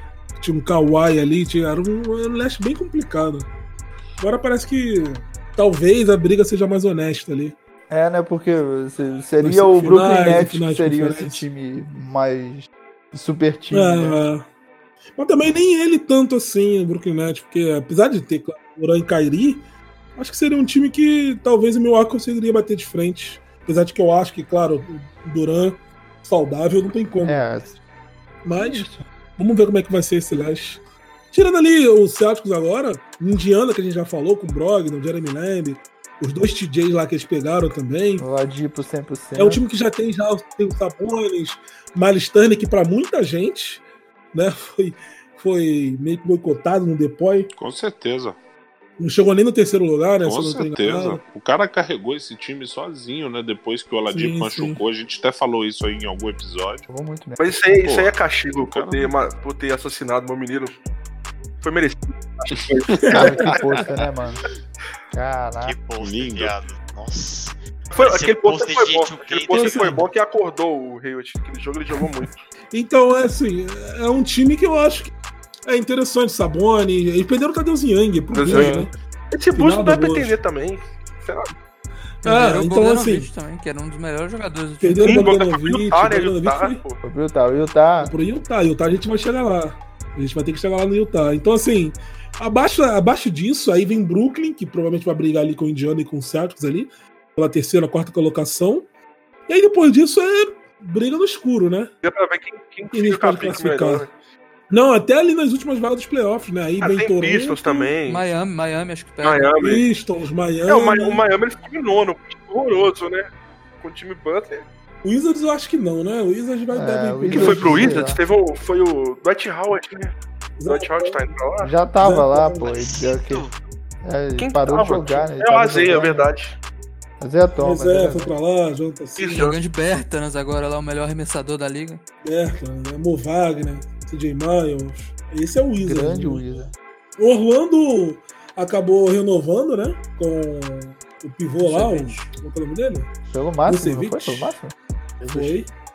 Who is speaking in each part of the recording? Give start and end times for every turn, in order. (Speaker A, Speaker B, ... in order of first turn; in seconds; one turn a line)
Speaker A: 0.4-3.5
Speaker A: 4.2-7.5
Speaker B: 7.9-14.2
Speaker A: 9.4-11.4
Speaker A: 13.7-14.5
Speaker A: 15.1-19.6
Speaker A: 20.1-27.4
Speaker B: 27.2-27.8
Speaker A: 28.4-38.2
Speaker B: 28.6-29.1
Speaker B: 38.2-39.6
Speaker A: 39.3-47.5
Speaker C: 47.5-48.4
Speaker A: 49.0-51.2
Speaker C: 50.2-56.9
Speaker A: 54.1-54.8
Speaker B: 56.9-57.6
Speaker D: 57.4-60.8
Speaker C: 57.7-59.1
Speaker D: 61.6-63.6
Speaker C: 62.5-63.9
Speaker B: 63.1-64.4
Speaker B: 65.1-65.8
Speaker E: 65.6-70.0
Speaker C: 65.9-66.5
Speaker D: 67.9-72.4
Speaker A: 69.5-70.0
Speaker A: 72.7-75.1
Speaker A: 75.7-78.9
Speaker D: 78.3-81.5
Speaker A: 79.5-80.4
Speaker A: 82.2-83.3
Speaker F: 82.2-85.2
Speaker A: 84.8-86.8
Speaker D: 85.0-87.0
Speaker B: 87.0-88.1
Speaker A: 88.0-98.8
Speaker A: 99.5-101.9
Speaker D: 102.0-104.1
Speaker A: 102.9-104.1
Speaker A: 104.7-107.9
Speaker D: 106.8-108.2
Speaker F: 108.0-109.5
Speaker D: 109.2-109.8
Speaker A: 109.6-111.2
Speaker D: 110.7-113.3
Speaker D: 113.8-114.7
Speaker A: 115.0-118.1
Speaker B: 116.7-118.2
Speaker D: 117.3-120.1
Speaker A: 120.6-121.2
Speaker D: 120.7-121.7
Speaker B: 121.6-123.4
Speaker A: 122.0-122.6
Speaker E: 122.6-123.6
Speaker B: 124.0-126.3
Speaker D: 124.4-126.6
Speaker B: 127.2-128.3
Speaker A: 127.6-129.5
Speaker D: 129.2-129.6
Speaker F: 129.3-132.0
Speaker A: 132.2-136.5
Speaker B: 135.8-136.7
Speaker A: 137.2-143.1
Speaker B: 141.6-142.2
Speaker B: 143.3-145.6
Speaker A: 143.6-144.6
Speaker A: 145.3-145.7